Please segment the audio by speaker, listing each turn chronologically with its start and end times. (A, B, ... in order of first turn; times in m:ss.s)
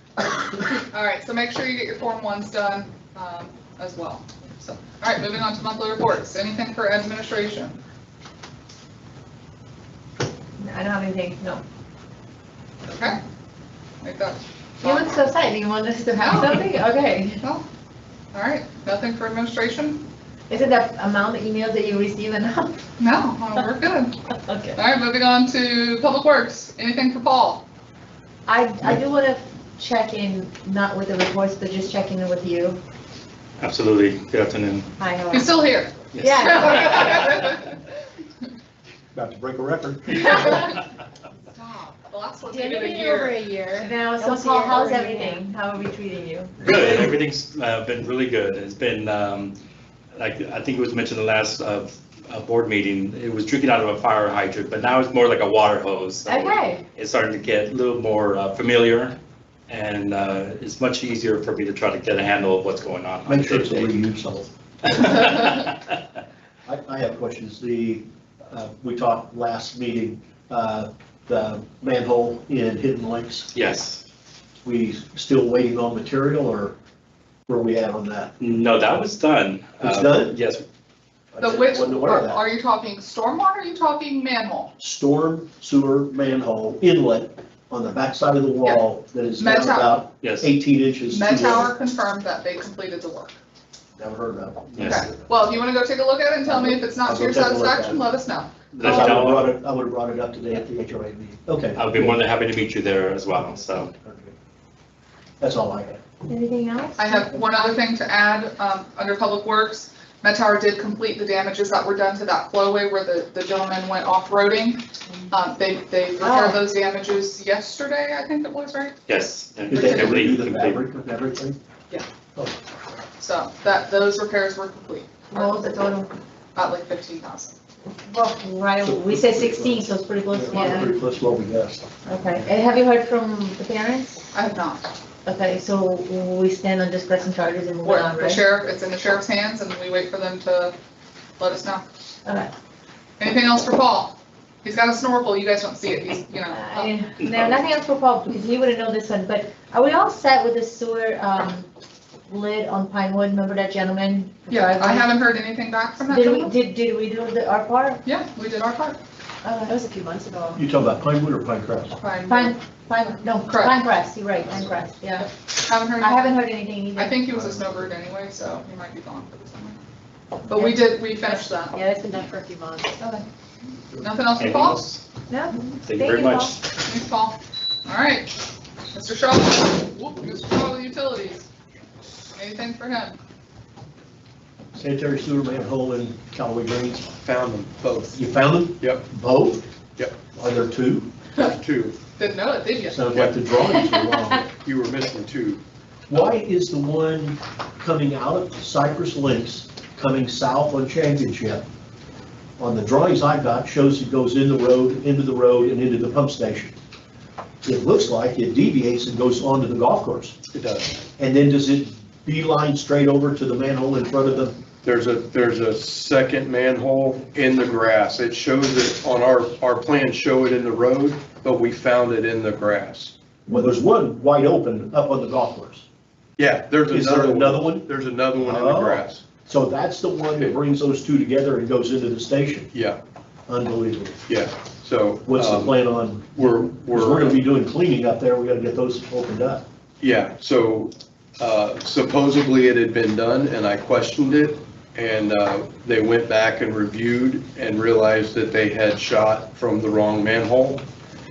0:00.9-0:07.8 A
0:10.6-0:11.6 B
0:12.8-0:13.2 A
0:14.0-0:15.0 A
0:14.8-0:17.4 B
0:16.2-0:16.7 A
0:18.3-0:20.0 A
0:20.5-0:22.8 B
0:23.0-0:24.1 A
0:24.4-0:24.8 B
0:24.8-0:27.6 A
0:28.5-0:32.8 B
0:33.6-0:34.9 C
0:35.0-0:35.7 B
0:35.3-0:37.8 A
0:36.1-0:37.4 C
0:36.2-0:37.2 B
0:39.1-0:40.7 D
0:40.3-0:40.6 A
0:41.5-0:43.4 A
0:42.5-0:45.4 E
0:43.8-0:46.6 B
0:46.6-0:49.6 C
0:50.2-0:59.2 C
0:56.3-0:56.8 B
0:59.7-1:03.9 C
1:03.3-1:04.5 D
1:04.9-1:05.8 C
1:06.7-1:13.5 D
1:13.5-1:14.0 C
1:14.6-1:16.8 D
1:17.5-1:18.3 D
1:18.4-1:20.6 C
1:19.8-1:20.4 D
1:21.3-1:22.4 D
1:21.4-1:24.7 A
1:24.8-1:31.7 D
1:29.4-1:30.0 A
1:30.2-1:30.5 C
1:31.1-1:33.4 A
1:34.0-1:35.3 D
1:34.8-1:35.0 C
1:34.8-1:38.5 A
1:36.5-1:38.0 D
1:38.7-1:39.6 C
1:38.8-1:42.2 D
1:41.7-1:43.9 C
1:43.9-1:44.3 D
1:45.4-1:46.0 D
1:46.3-1:47.3 B
1:47.0-1:59.0 A
1:56.2-1:56.6 B
1:59.1-2:00.8 C
1:59.7-2:01.6 D
1:59.7-2:00.3 A
2:03.2-2:05.8 A
2:05.3-2:06.1 B
2:06.6-2:07.6 A
2:08.1-2:10.9 B
2:08.8-2:11.8 D
2:12.1-2:14.2 B
2:14.3-2:14.9 A
2:15.2-2:18.4 B
2:17.8-2:20.8 A
2:21.4-2:21.8 A
2:22.2-2:22.5 B
2:23.2-2:26.9 A
2:26.5-2:31.7 B
2:32.3-2:35.1 B
2:34.5-2:36.5 A
2:36.1-2:38.0 B
2:38.0-2:39.0 A
2:39.4-2:39.8 B
2:39.7-2:40.6 E
2:40.6-2:42.0 D
2:42.0-2:42.6 A
2:42.3-2:45.3 B
2:43.5-2:43.8 A
2:45.2-2:46.4 A
2:46.0-2:47.2 B
2:47.0-2:49.8 A
2:47.4-2:47.9 D
2:50.5-2:51.8 A
2:50.5-2:51.4 B
2:51.7-2:53.0 E
2:53.0-2:53.3 A
2:54.0-2:54.8 A
2:54.4-2:55.0 C
2:55.3-2:56.6 B
2:55.8-2:56.6 C
2:56.8-2:58.3 A
2:58.9-3:01.5 A
3:02.4-3:03.2 A
3:04.8-3:07.2 D
3:07.2-3:08.2 F
3:08.1-3:09.6 D
3:08.8-3:09.0 F
3:10.4-3:11.1 D
3:11.4-3:12.0 F
3:12.2-3:13.0 A
3:12.9-3:14.5 D
3:14.5-3:15.6 F
3:16.1-3:21.6 D
3:22.6-3:26.7 D
3:27.6-3:30.4 D
3:30.5-3:31.0 F
3:31.2-3:34.6 D
3:34.8-3:43.1 F
3:43.5-3:45.9 D
3:46.4-3:49.2 F
3:46.9-3:52.7 D
3:53.5-3:54.2 D
3:54.3-3:57.4 F
3:55.2-3:59.6 D
4:00.0-4:10.8 F